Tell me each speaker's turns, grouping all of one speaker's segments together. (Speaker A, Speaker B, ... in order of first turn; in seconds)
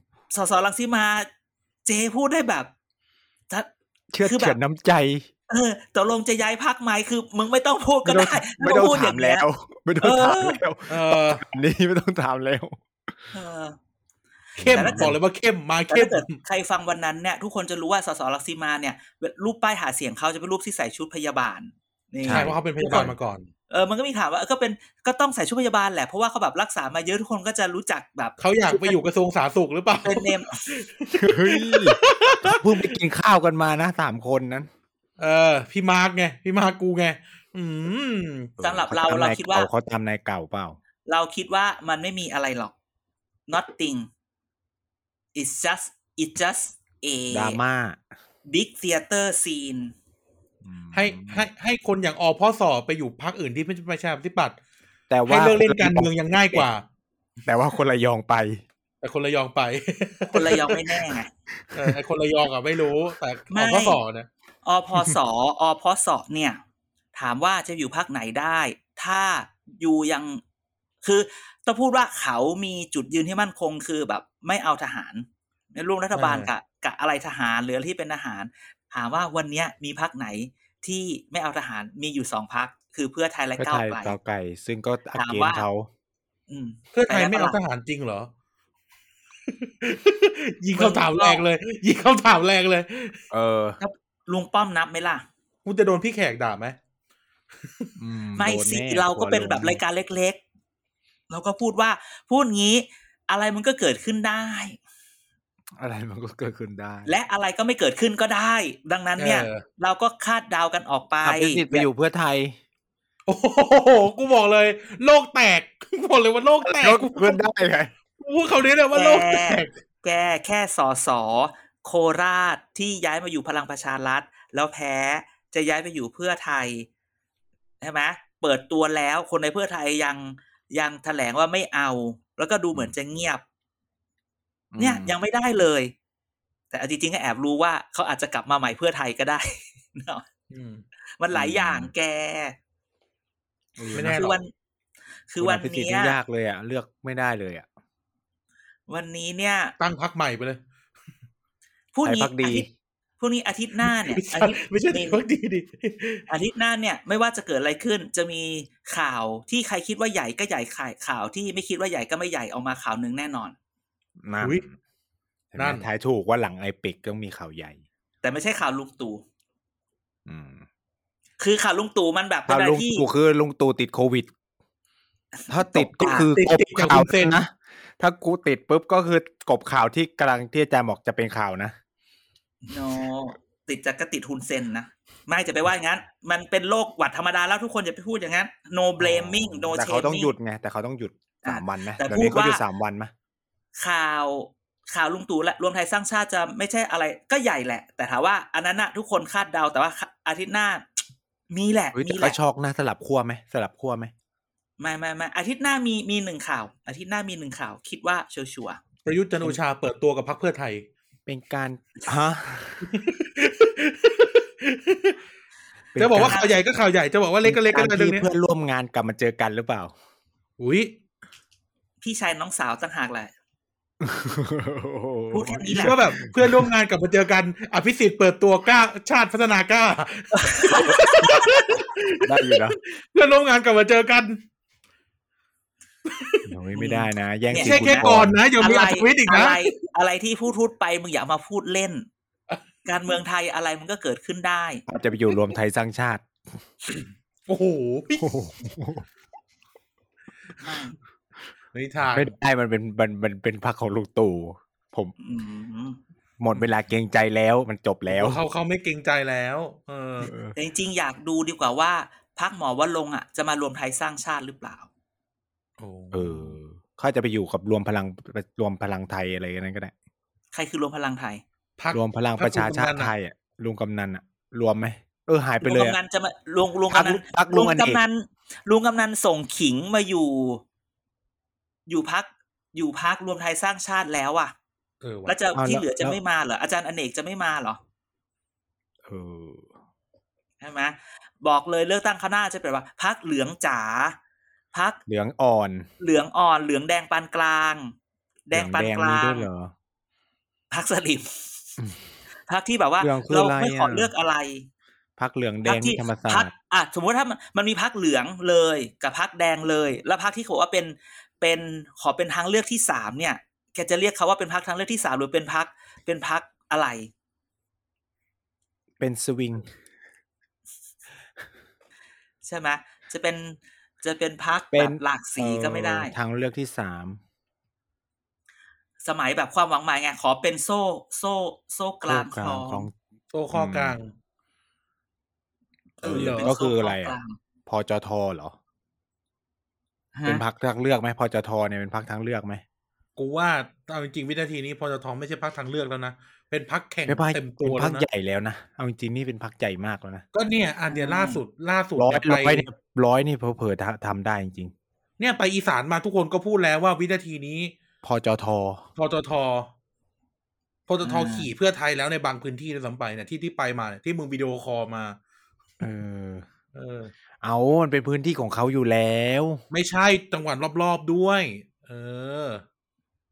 Speaker A: 0.3-1.3, 1.9-2.7, 4.2-4.6, 5.5-9.4, 10.0-10.6, 13.3-13.8, 14.6-15.2, 15.9-23.1, 23.7-29.0, 30.0-30.6, 38.6-39.7, 41.0-42.7, 43.5-44.1, 45.3-47.6, 48.5-49.9, 60.3-61.3, 63.5-64.0, 64.6-66.6, 67.1-70.4, 71.0-84.1, 85.2-85.6, 86.5-87.6, 90.8-91.4, 93.8-95.2, 98.4-100.4, 101.3-104.8, 107.0-111.9, 118.9-126.9, 127.8-133.4, 134.8-135.9, 136.7-140.2, 141.2-142.5, 144.1-144.5, 145.3-146.2, 148.9-149.7, 151.9-152.7, 153.2-155.2, 156.3-163.6, 168.2-169.2, 171.4-173.0, 175.4-176.3, 182.7-190.3, 191.4-192.6, 193.8-202.4, 204.8-208.8, 216.1-216.6, 222.0-223.3, 225.3-226.0, 230.3-231.8, 236.7-242.1, 242.8-244.8, 250.6-250.9, 255.2-256.0, 260.5-264.9, 270.5-271.4, 275.6-280.6, 281.9-284.5, 285.2-287.8, 290.6-294.2, 294.7-295.0, 296.0-297.9, 298.5-299.5, 300.7-301.3, 302.5-304.7, 305.6-317.1, 322.4-326.1, 329.0-332.9, 336.0-337.4, 340.1-340.4, 350.9-351.4, 361.0-361.5
Speaker B: 4.1-5.3, 8.0-12.8, 14.6-15.1, 22.2-23.1, 31.2-34.7, 38.6-40.8, 47.3-48.0, 50.6-51.4, 55.1-56.7, 57.4-58.6, 83.6-85.9, 93.3-93.8, 98.0-99.8, 105.8-107.1, 111.2-112.5, 116.6-117.9, 134.7-135.1, 141.3-141.9, 143.8-144.2, 145.4-147.7, 152.0-152.7, 164.2-164.7, 165.5-167.8, 170.2-170.6, 172.5-174.3, 175.5-181.7, 189.0-193.1, 201.9-204.1, 211.3-212.9, 215.9-216.4, 217.4-219.9, 224.0-226.7, 231.1-231.4, 232.2-232.8, 236.5-238.4, 244.9-246.3, 248.2-249.1, 252.0-255.1, 256.4-258.4, 260.2-260.5, 266.1-269.9, 271.9-276.0, 276.9-278.0, 285.5-286.2, 289.1-289.7, 295.1-295.9, 298.5-299.7, 303.0-304.1, 305.2-306.5, 319.0-319.7, 324.7-327.2, 332.1-332.9, 333.5-334.0, 336.0-338.6, 340.2-342.6, 347.1-350.2, 352.0-354.7, 358.0-358.8, 365.8-366.4, 367.4-369.6
Speaker C: 10.9-11.4, 14.6-16.3, 22.2-23.5, 28.4-32.6, 35.2-38.5, 50.9-54.6, 55.3-56.8, 59.0-60.8, 61.7-64.3, 76.1-76.5, 86.9-88.3, 89.5-93.2, 95.6-96.8, 109.2-109.6, 113.3-117.4, 118.2-119.7, 140.5-140.8, 143.9-144.4, 149.8-150.6, 153.8-156.2, 164.4-164.6, 165.6-165.8, 176.0-177.4, 209.1-210.9, 212.8-215.2, 216.0-218.3, 220.6-220.9, 225.7-234.4, 236.1-236.5, 237.5-239.6, 246.9-248.3, 251.7-252.3, 258.1-260.3, 265.8-266.6, 271.8-273.1, 285.0-285.4, 333.3-334.1, 336.1-336.5, 343.2-348.0, 350.3-352.6, 355.2-357.7, 359.0-359.7, 360.9-365.2, 366.7-367.1, 369.7-372.6